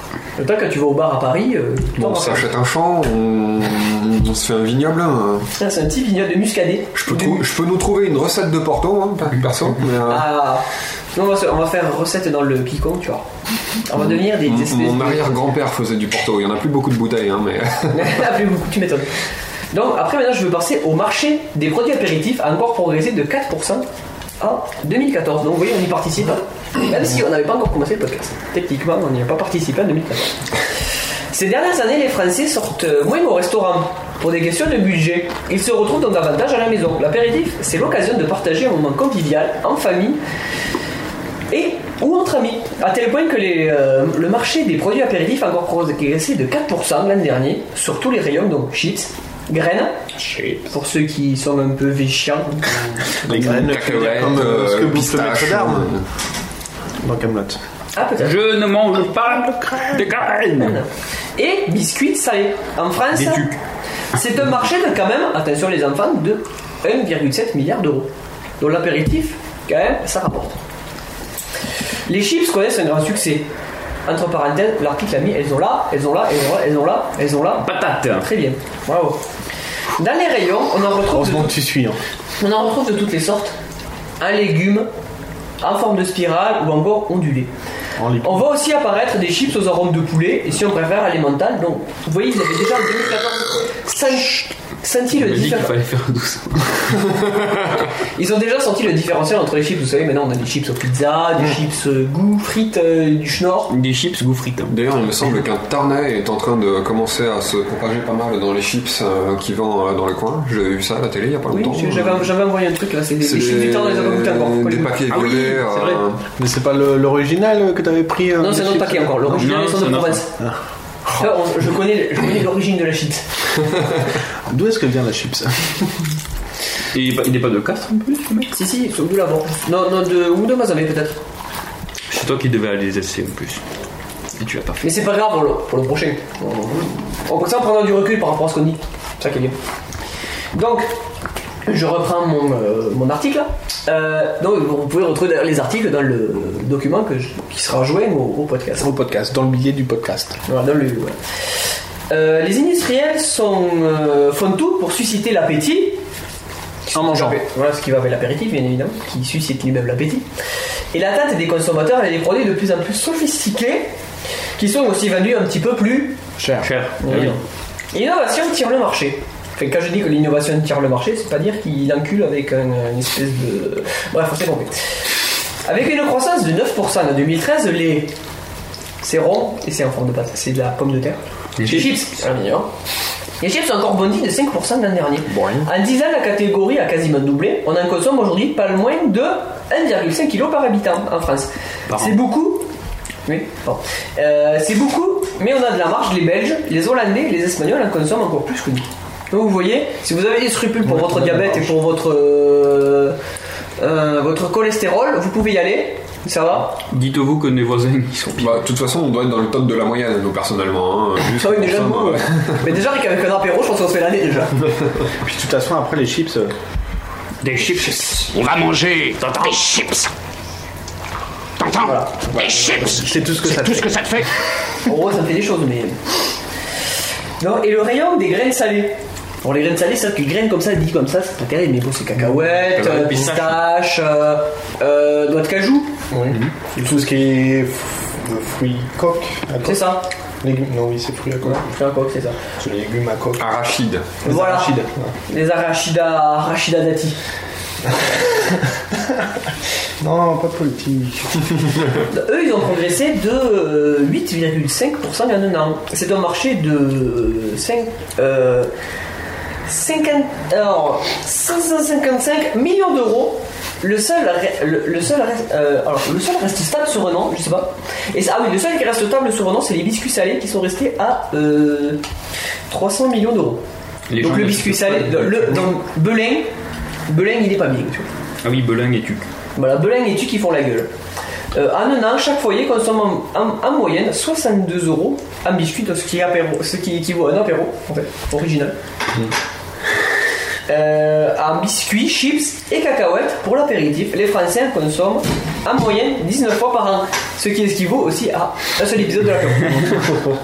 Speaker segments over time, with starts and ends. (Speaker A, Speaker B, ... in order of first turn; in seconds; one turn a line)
Speaker A: 0.4-2.5
Speaker B: 2.0-5.5
Speaker A: 5.6-7.5
Speaker B: 7.0-10.3
Speaker A: 10.1-13.3
Speaker A: 13.8-15.4
Speaker B: 13.9-18.2
Speaker A: 17.9-19.1
Speaker A: 19.7-23.9
Speaker A: 24.4-30.4
Speaker A: 31.3-40.2
Speaker A: 41.5-50.0
Speaker C: 50.2-50.6
Speaker A: 50.7-53.1
Speaker D: 53.2-55.9
Speaker B: 53.3-56.0
Speaker D: 57.0-57.6
Speaker A: 58.0-58.4
Speaker C: 58.2-60.8
Speaker A: 60.6-63.5
Speaker C: 63.1-63.6
Speaker A: 64.1-68.1
Speaker A: 68.6-70.6
Speaker A: 72.1-73.5
Speaker A: 74.1-79.2
Speaker C: 77.6-78.3
Speaker A: 80.0-81.5
Speaker D: 81.1-82.0
Speaker A: 82.4-83.5
Speaker A: 84.2-84.9
Speaker A: 85.6-87.5
Speaker D: 88.0-88.5
Speaker A: 88.2-95.7
Speaker C: 95.1-97.2
Speaker A: 98.2-103.7
Speaker C: 103.7-104.8
Speaker B: 104.7-112.3
Speaker A: 111.5-115.3
Speaker B: 113.2-116.2
Speaker C: 115.1-116.0
Speaker D: 116.4-119.5
Speaker A: 118.4-120.3
Speaker C: 119.3-120.2
Speaker A: 121.1-123.2
Speaker D: 124.5-126.0
Speaker C: 126.9-128.5
Speaker A: 128.5-131.2
Speaker C: 132.1-133.6
Speaker C: 134.4-134.9
Speaker A: 134.8-139.6
Speaker A: 140.5-140.9
Speaker A: 141.7-148.9
Speaker D: 148.8-150.4
Speaker A: 150.5-151.2
Speaker A: 152.1-156.0
Speaker A: 156.9-160.3
Speaker D: 156.9-157.4
Speaker A: 160.9-163.9
Speaker A: 164.6-166.2
Speaker D: 166.4-166.7
Speaker C: 166.6-167.4
Speaker A: 167.0-167.4
Speaker A: 167.9-174.8
Speaker A: 175.7-178.1
Speaker A: 179.0-182.7
Speaker C: 181.6-182.0
Speaker A: 183.4-192.7
Speaker D: 185.3-185.7
Speaker C: 191.9-192.2
Speaker A: 193.3-203.2
Speaker D: 200.8-201.8
Speaker A: 203.8-206.8
Speaker C: 206.9-208.7
Speaker B: 208.4-212.7
Speaker A: 211.3-214.6
Speaker D: 215.2-216.5
Speaker C: 217.4-218.3
Speaker E: 218.2-220.1
Speaker E: 221.6-224.3
Speaker A: 221.8-223.1
Speaker D: 222.9-224.1
Speaker A: 224.8-226.0
Speaker A: 227.4-236.1
Speaker C: 232.6-233.6
Speaker D: 236.1-241.7
Speaker A: 239.6-240.1
Speaker A: 241.4-242.4
Speaker D: 242.6-243.5
Speaker B: 243.4-244.1
Speaker A: 244.2-244.8
Speaker D: 244.2-245.1
Speaker A: 245.3-247.2
Speaker D: 250.0-251.8
Speaker A: 252.1-258.7
Speaker A: 259.7-272.0
Speaker A: 272.7-273.6
Speaker C: 274.1-275.7
Speaker A: 274.2-276.5
Speaker A: 277.1-278.1
Speaker C: 278.4-279.2
Speaker A: 279.6-280.9
Speaker A: 281.5-288.8
Speaker A: 290.7-300.1